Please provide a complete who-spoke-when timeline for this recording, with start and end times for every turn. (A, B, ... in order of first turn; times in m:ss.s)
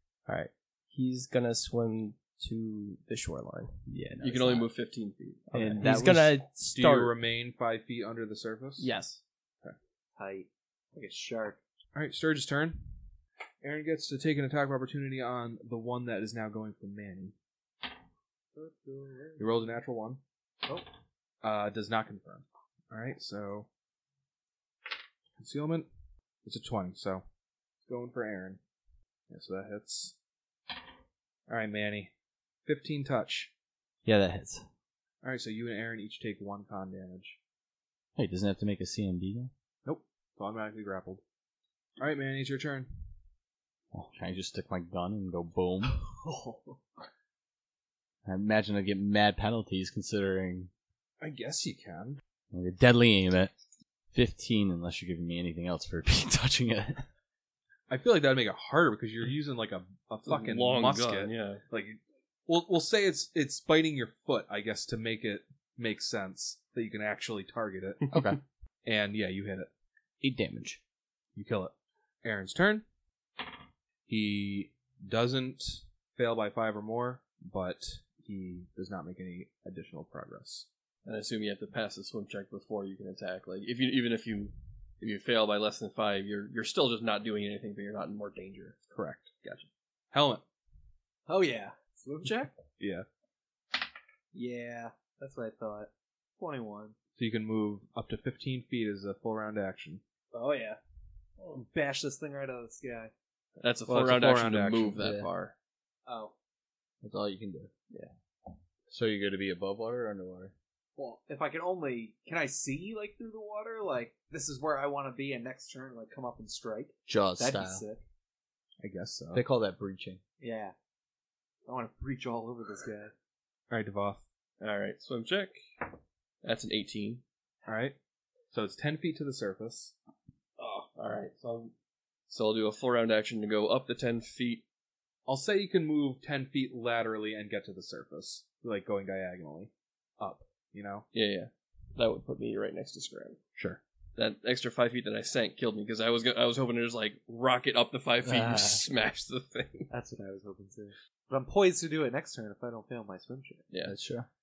0:00.3-0:03.8 A
0:03.9-0:04.7 B
0:04.2-0:05.8 C
0:05.5-0:07.1 A
0:05.5-0:06.3 B
0:06.7-0:08.9 D
0:08.8-0:09.2 A
0:10.2-0:11.6 E
0:11.9-0:12.9 D
0:13.6-0:17.3 D
0:18.5-0:19.7 E
0:19.4-0:20.2 D
0:21.4-0:23.7 D
0:25.4-0:25.9 D
0:26.4-0:27.2 D
0:27.9-0:28.6 D
0:29.3-0:30.1 D
0:31.5-0:32.1 D
0:32.6-0:33.5 D
0:34.0-0:34.6 B
0:35.2-0:37.4 D
0:38.2-0:39.5 B
0:39.8-0:41.2 D
0:42.0-0:42.9 D
0:43.9-0:46.0 B
0:45.9-0:46.8 E
0:48.2-0:50.7 B
0:51.2-0:52.2 D
0:52.5-0:53.5 B
0:54.1-0:57.0 B
0:57.9-1:08.2 D
1:00.2-1:01.6 C
1:08.1-1:08.4 B
1:08.8-1:09.7 D
1:10.2-1:10.8 B
1:11.3-1:11.7 D
1:12.2-1:12.8 D
1:14.1-1:20.6 D
1:21.0-1:28.8 C
1:28.9-1:30.4 D
1:31.3-1:32.6 E
1:32.8-1:33.0 D
1:34.3-1:36.9 E
1:37.2-1:40.0 D
1:40.3-1:40.8 E
1:41.4-1:43.1 E
1:43.6-1:45.5 C
1:43.9-1:45.0 D
1:45.0-1:45.3 B
1:46.0-1:46.3 E
1:47.0-1:47.7 B
1:48.9-1:50.5 B
1:51.0-1:58.0 E
1:57.1-1:57.8 B
1:58.8-1:59.4 D
1:59.3-2:00.2 B
2:00.4-2:00.7 E
2:01.6-2:03.1 E
2:03.7-2:04.2 D
2:04.6-2:05.6 C
2:06.4-2:07.2 C
2:07.6-2:07.9 D
2:08.5-2:09.9 D
2:10.6-2:11.7 C
2:12.3-2:14.6 C
2:15.2-2:21.0 D
2:21.1-2:23.4 C
2:24.2-2:29.9 C
2:28.2-2:28.8 B
2:29.9-2:33.6 E
2:33.7-2:33.9 C
2:33.8-2:34.3 B